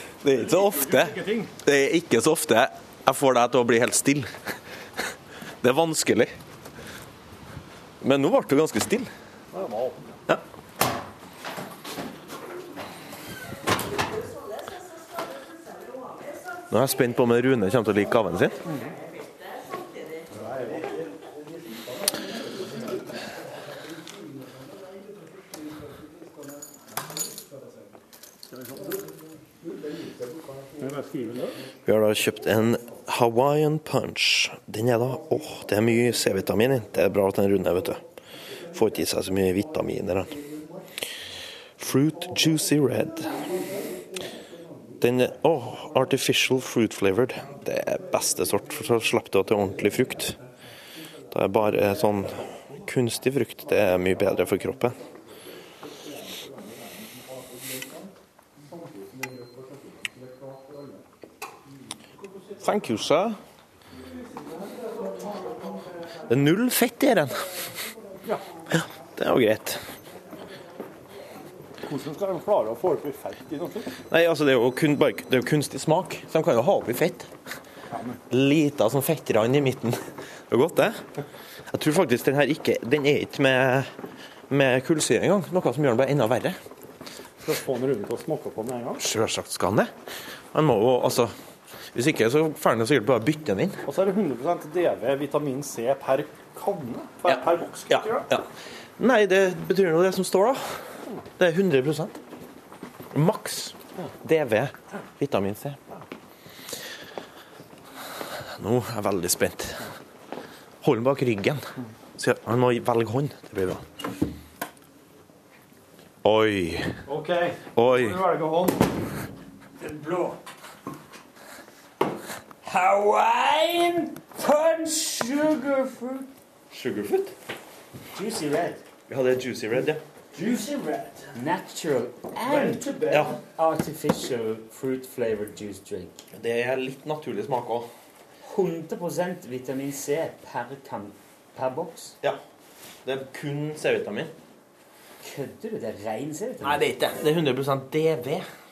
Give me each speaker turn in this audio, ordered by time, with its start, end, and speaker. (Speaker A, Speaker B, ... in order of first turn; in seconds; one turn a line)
Speaker A: 0.2-4.3
Speaker B: 0.3-1.5
Speaker A: 5.6-6.4
Speaker A: 8.0-9.1
Speaker B: 9.5-10.2
Speaker A: 16.7-18.6
Speaker B: 18.7-19.0
Speaker B: 20.3-21.1
Speaker B: 22.5-23.0
Speaker B: 28.5-28.9
Speaker B: 30.8-31.7
Speaker A: 31.9-38.0
Speaker A: 38.7-40.4
Speaker A: 41.8-43.5
Speaker A: 45.0-50.4
Speaker A: 51.3-55.0
Speaker B: 58.7-60.8
Speaker A: 62.6-63.4
Speaker B: 64.8-65.6
Speaker A: 66.3-67.5
Speaker A: 68.7-69.8
Speaker B: 71.8-73.9
Speaker A: 74.1-77.3
Speaker B: 77.9-78.2
Speaker A: 78.3-81.0
Speaker A: 81.7-83.9
Speaker A: 84.5-86.6
Speaker B: 87.4-89.0
Speaker A: 89.0-89.9
Speaker A: 90.5-91.3
Speaker A: 91.9-93.8
Speaker B: 93.8-98.3
Speaker A: 97.3-98.5
Speaker A: 99.0-100.6
Speaker A: 101.4-102.2
Speaker A: 103.1-106.0
Speaker A: 108.6-109.9
Speaker A: 110.8-113.8
Speaker A: 116.2-116.9
Speaker B: 117.1-118.9
Speaker A: 117.8-118.2
Speaker C: 119.8-120.4
Speaker C: 122.6-126.3
Speaker A: 126.7-127.3
Speaker C: 128.1-128.8
Speaker A: 129.1-130.0
Speaker B: 130.3-131.3
Speaker C: 131.3-132.9
Speaker B: 132.4-133.4
Speaker A: 133.1-133.3
Speaker C: 133.6-136.2
Speaker A: 136.3-137.9
Speaker C: 138.4-142.2
Speaker A: 143.1-144.3
Speaker C: 145.2-146.9
Speaker A: 146.6-148.5